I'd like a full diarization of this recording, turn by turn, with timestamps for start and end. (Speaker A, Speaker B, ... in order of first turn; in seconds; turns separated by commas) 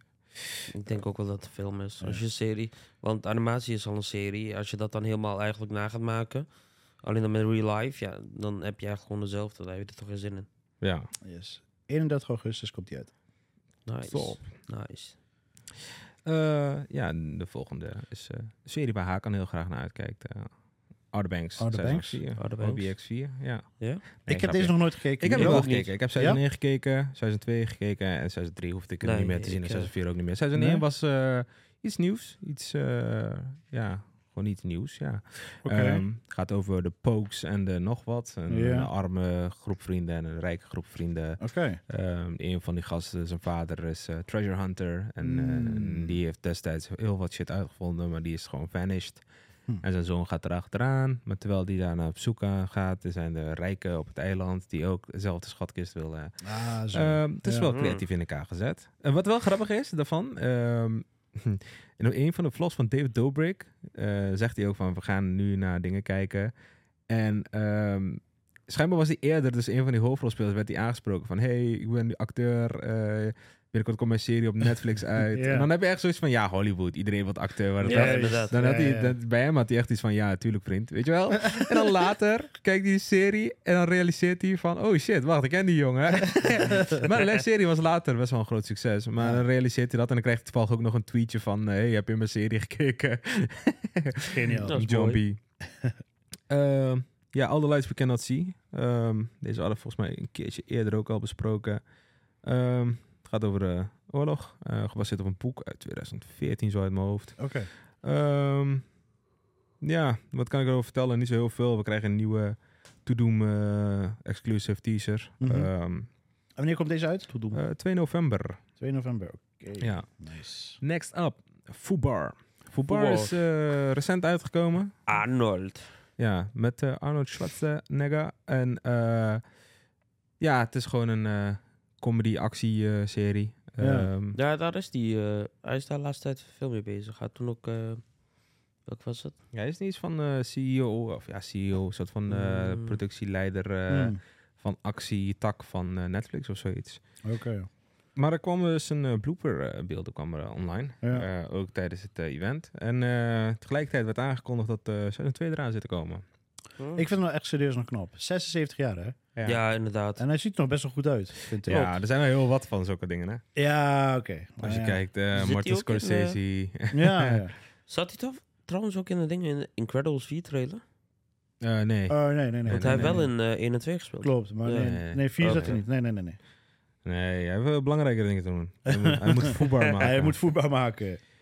Speaker A: 0.7-6.5, Speaker A: 7.0-10.5, Speaker B: 10.8-11.1, Speaker C: 11.2-13.1, Speaker A: 13.8-15.2, Speaker B: 14.1-14.4, Speaker B: 16.2-20.5, Speaker B: 21.1-49.2, Speaker C: 21.6-22.2, Speaker A: 22.4-22.9, Speaker C: 24.2-26.4, Speaker A: 25.3-25.9, Speaker A: 29.0-29.9, Speaker C: 30.5-30.8, Speaker C: 35.6-36.0, Speaker C: 38.5-38.9, Speaker C: 41.4-41.8, Speaker C: 45.2-46.2, Speaker B: 49.8-66.5, Speaker C: 56.4-57.8, Speaker A: 57.7-58.0, Speaker B: 67.1-95.4, Speaker C: 75.2-75.7, Speaker A: 77.8-78.6, Speaker C: 77.8-79.2, Speaker C: 89.2-89.4, Speaker C: 94.3-94.8, Speaker A: 94.6-95.2, Speaker B: 96.5-101.8, Speaker B: 102.4-107.4, Speaker C: 107.4-107.7, Speaker B: 108.0-108.8, Speaker B: 109.8-116.1, Speaker C: 115.4-115.7, Speaker C: 116.6-117.4, Speaker A: 117.3-117.6, Speaker B: 117.5-118.6, Speaker C: 118.8-120.8, Speaker B: 119.8-120.1, Speaker B: 120.8-125.0, Speaker A: 122.9-123.3, Speaker A: 125.1-125.9, Speaker B: 126.2-129.4, Speaker B: 130.4-134.4, Speaker C: 133.8-134.1, Speaker A: 134.3-138.0, Speaker A: 138.8-139.4, Speaker B: 139.5-147.0, Speaker A: 142.3-143.0, Speaker C: 143.9-144.2, Speaker C: 147.2-147.7, Speaker B: 148.2-156.2, Speaker A: 156.8-157.1, Speaker C: 156.9-159.2, Speaker B: 159.3-159.6, Speaker A: 159.4-160.2, Speaker C: 160.2-161.9, Speaker B: 161.6-163.4, Speaker C: 163.6-165.0, Speaker B: 164.6-167.4, Speaker A: 165.3-166.4, Speaker C: 166.9-167.5, Speaker A: 167.9-170.8, Speaker B: 171.6-173.3, Speaker C: 172.1-173.3, Speaker A: 172.7-175.8, Speaker C: 174.2-176.4, Speaker B: 174.8-175.8, Speaker B: 177.0-180.4, Speaker C: 178.9-181.2